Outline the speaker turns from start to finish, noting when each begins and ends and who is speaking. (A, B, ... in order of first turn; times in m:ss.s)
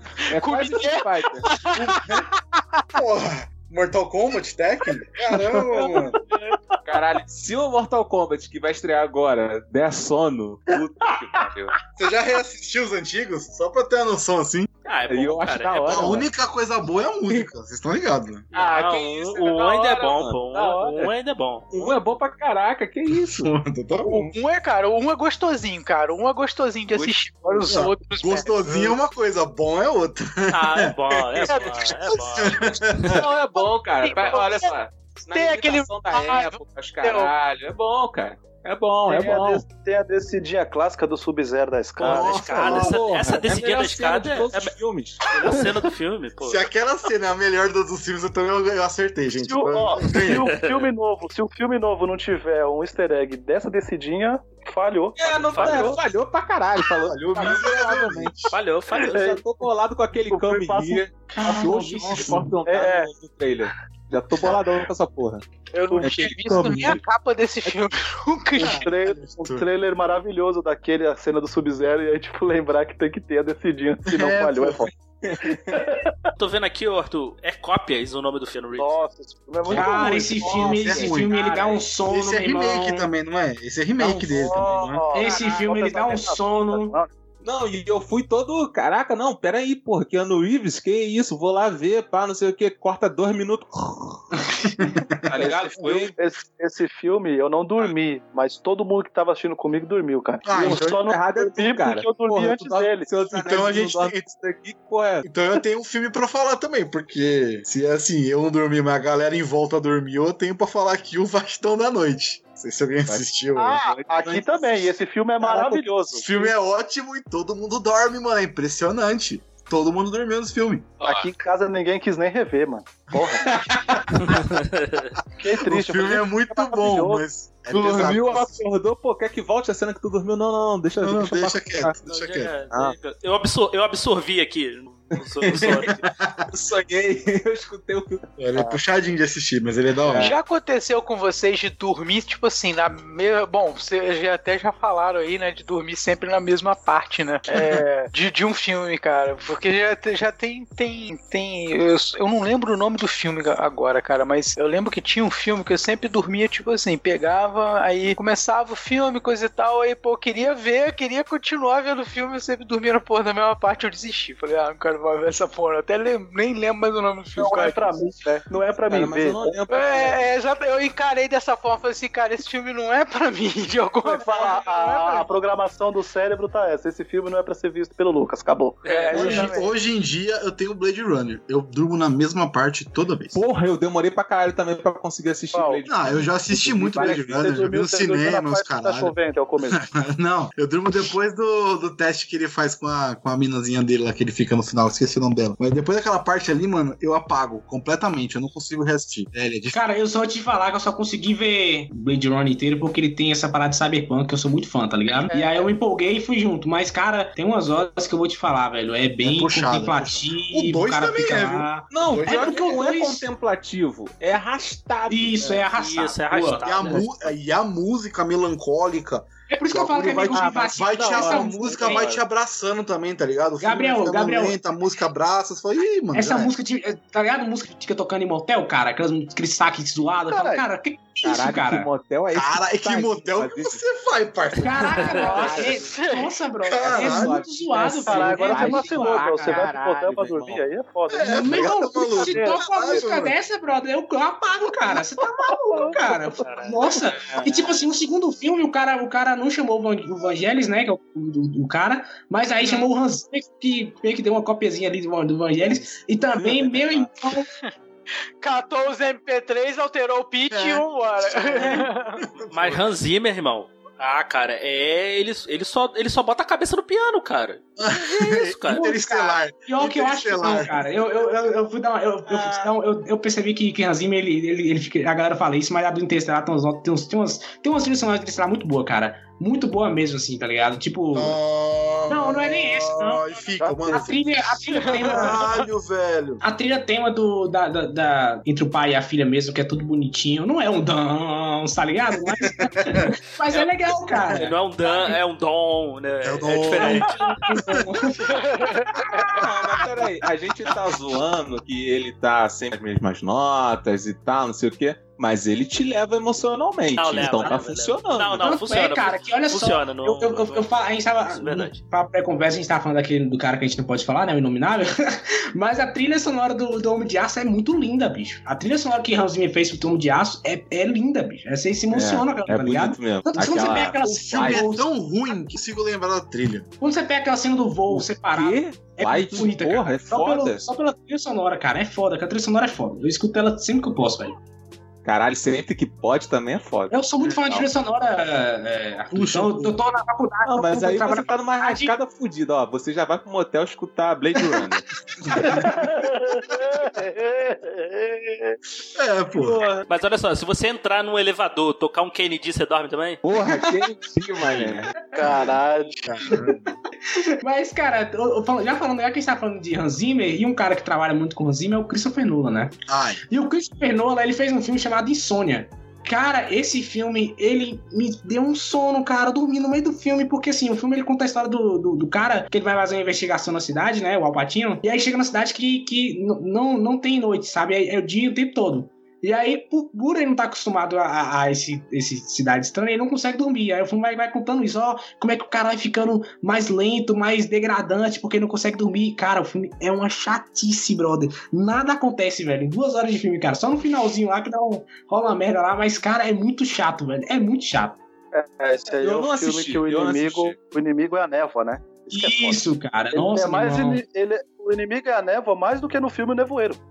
0:00.2-0:02.8 A
0:00.3-0:01.7 B
0:01.6-0:02.3 C
0:02.9-0:06.2 C
0:05.5-0:06.6 A
0:06.8-0:11.7 B
0:12.0-0:14.7 C
0:14.8-0:16.2 D
0:15.1-0:16.3 B
0:15.8-0:18.5 C
0:18.5-0:21.1 B
0:18.5-0:21.7 D
0:21.7-0:23.5 B
0:23.1-0:24.3 C
0:24.1-0:28.9 A
0:26.9-0:27.7 B
0:27.7-0:30.9 C
0:30.5-0:33.2 D
0:31.3-0:31.9 B
0:31.5-0:32.1 A
0:32.1-0:33.2 C
0:33.0-0:39.7 B
0:33.5-0:34.7 A
0:35.3-0:37.3 A
0:39.0-0:42.9 E
0:42.0-0:46.6 D
0:42.0-0:43.0 C
0:42.6-0:45.6 B
0:46.4-0:50.5 C
0:49.4-0:56.0 E
0:50.2-0:50.9 D
0:55.2-0:58.4 B
0:55.5-0:55.9 D
0:57.0-0:58.5 C
0:58.5-0:59.2 D
0:59.0-0:59.4 E
0:59.0-1:05.4 B
1:00.3-1:03.0 E
1:01.4-1:02.6 C
1:05.7-1:08.9 A
1:05.9-1:06.6 E
1:06.0-1:07.0 B
1:06.6-1:06.9 C
1:08.6-1:09.7 C
1:08.7-1:16.1 E
1:14.1-1:14.9 C
1:15.2-1:15.8 B
1:16.4-1:18.9 D
1:18.7-1:20.4 E
1:19.6-1:21.3 C
1:19.7-1:23.1 F
1:20.3-1:21.8 B
1:22.0-1:25.0 C
1:24.0-1:25.0 B
1:24.3-1:27.1 E
1:25.0-1:25.7 A
1:25.1-1:26.9 F
1:27.4-1:34.3 B
1:34.8-1:35.3 C
1:35.3-1:36.2 B
1:35.4-1:43.1 E
1:40.4-1:41.0 C
1:40.5-1:45.3 B
1:43.3-1:44.3 C
1:45.2-1:53.8 C
1:53.0-1:54.9 B
1:53.7-1:54.0 A
1:54.1-1:56.5 E
1:55.4-1:55.8 B
1:56.1-2:00.9 C
2:01.0-2:01.3 B
2:01.0-2:03.7 E
2:03.4-2:04.2 B
2:03.9-2:04.4 C
2:04.2-2:05.1 D
2:05.4-2:07.2 E
2:05.6-2:08.5 C
2:07.7-2:12.0 B
2:11.0-2:12.5 C
2:12.0-2:16.0 D
2:12.7-2:12.9 B
2:15.1-2:16.0 B
2:15.6-2:16.5 C
2:16.5-2:18.4 B
2:18.4-2:20.3 C
2:20.0-2:20.4 B
2:20.1-2:48.4 A
2:27.5-2:27.8 C
2:47.4-2:49.6 E
2:48.5-2:50.3 B
2:49.7-2:55.3 A
2:54.1-2:59.6 E
2:58.8-2:59.5 D
2:58.8-2:59.7 A
2:59.1-3:03.4 C
3:03.3-3:07.7 B
3:05.5-3:05.8 E
3:05.8-3:09.1 C
3:06.9-3:09.8 E
3:09.7-3:19.8 C
3:19.7-3:33.3 F
3:25.1-3:25.7 A
3:29.2-3:32.8 C
3:31.9-3:35.7 B
3:35.1-3:37.0 F
3:35.7-3:37.3 D
3:36.6-3:46.5 C
3:39.5-3:42.0 F
3:40.3-3:42.2 B
3:43.6-3:44.6 F
3:46.1-3:51.9 F
3:50.3-3:50.6 E
3:51.2-3:53.8 B
3:52.3-3:55.3 C
3:54.6-3:59.7 F
3:54.7-3:55.3 D
3:55.1-3:56.4 A
3:55.3-3:55.8 B
3:56.6-3:57.4 C
3:56.8-4:00.6 B
3:58.0-4:03.0 E
4:01.1-4:03.4 C
4:01.2-4:17.5 F
4:06.4-4:07.1 D
4:07.2-4:07.7 B
4:15.6-4:17.1 B
4:18.4-4:22.2 A
4:20.5-4:22.8 C
4:22.5-4:28.9 D
4:27.8-4:31.2 C
4:28.7-4:41.4 F
4:32.3-4:32.7 B
4:41.1-4:44.3 C
4:42.1-4:43.2 F
4:43.6-4:44.0 E
4:43.9-4:45.5 F
4:44.8-4:45.4 A
4:44.9-4:46.4 C
4:46.4-4:54.5 F
4:53.5-4:57.2 D
4:56.2-4:57.1 C
4:56.7-4:58.4 F
4:58.3-4:59.4 A
4:59.3-5:08.5 B
5:06.9-5:11.8 D
5:08.4-5:24.8 F
5:21.9-5:24.8 B
5:24.1-5:26.7 C
5:26.8-5:34.4 F
5:27.9-5:30.7 B
5:35.0-5:37.6 B
5:36.9-5:42.0 F
5:39.1-5:39.8 C
5:40.4-5:44.9 B
5:45.2-5:45.9 C
5:45.4-5:48.6 E
5:46.5-5:46.8 C
5:48.9-5:49.6 C
5:49.4-5:49.8 B
5:49.9-5:53.2 D
5:53.2-5:55.5 B
5:55.1-5:56.1 E
5:56.0-5:56.6 C
5:57.1-6:02.7 F
6:02.9-6:03.2 C
6:03.3-6:38.0 F
6:38.3-6:46.8 E
6:39.0-6:40.6 B
6:42.1-6:44.0 F